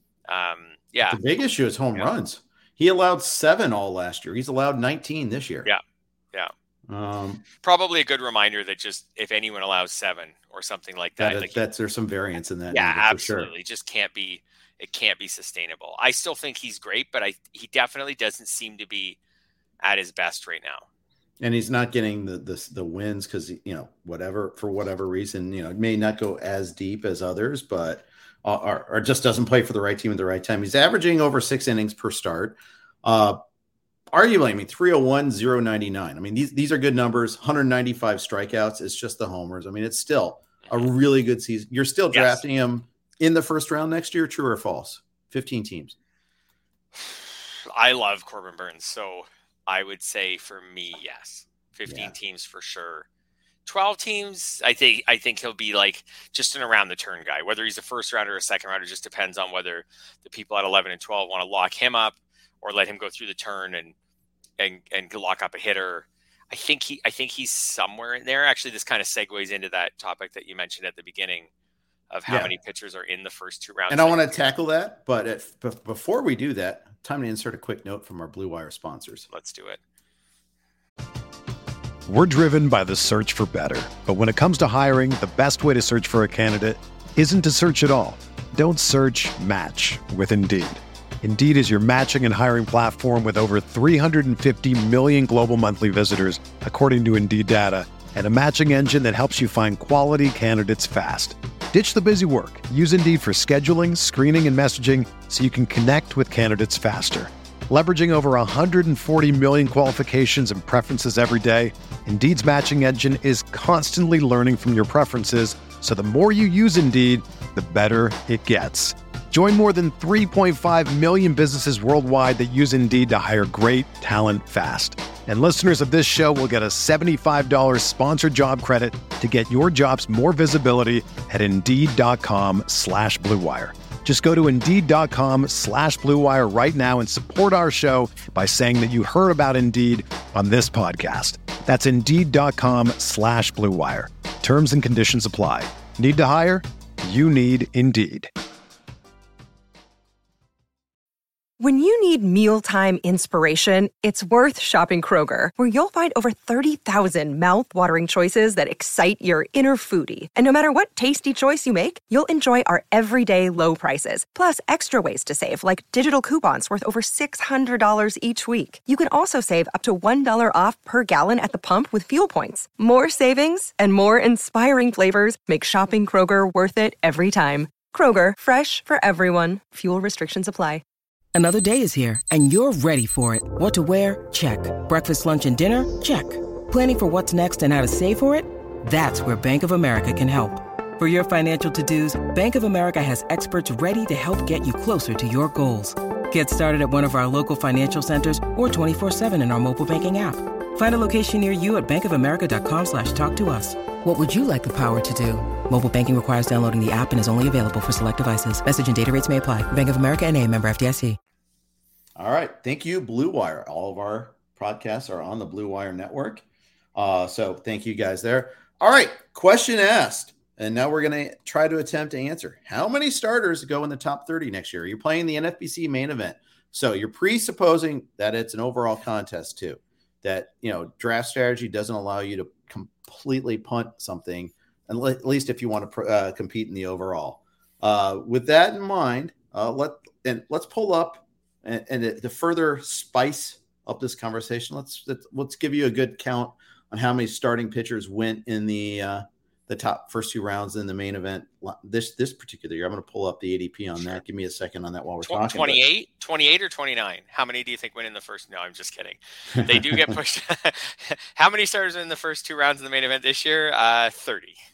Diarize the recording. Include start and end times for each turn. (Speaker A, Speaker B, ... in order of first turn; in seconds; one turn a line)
Speaker A: 0.3-1.2
Speaker B: 1.1-5.7
Speaker B: 6.9-7.4
Speaker A: 7.6-11.6
Speaker B: 11.2-13.5
Speaker A: 12.7-19.2
Speaker A: 19.8-20.9
Speaker B: 21.4-33.4
Speaker B: 34.1-46.0
Speaker A: 42.1-42.4
Speaker A: 47.0-53.1
Speaker B: 51.9-52.1
Speaker A: 53.7-63.9
Speaker A: 64.6-71.5
Speaker A: 72.1-74.4
Speaker B: 73.9-79.3
Speaker A: 79.3-79.8
Speaker C: 82.1-148.3
Speaker D: 151.6-180.8
Speaker E: 181.3-211.2
Speaker B: 212.2-216.4
Speaker B: 216.9-255.8
Speaker A: 255.2-264.6
Speaker B: 259.5-260.0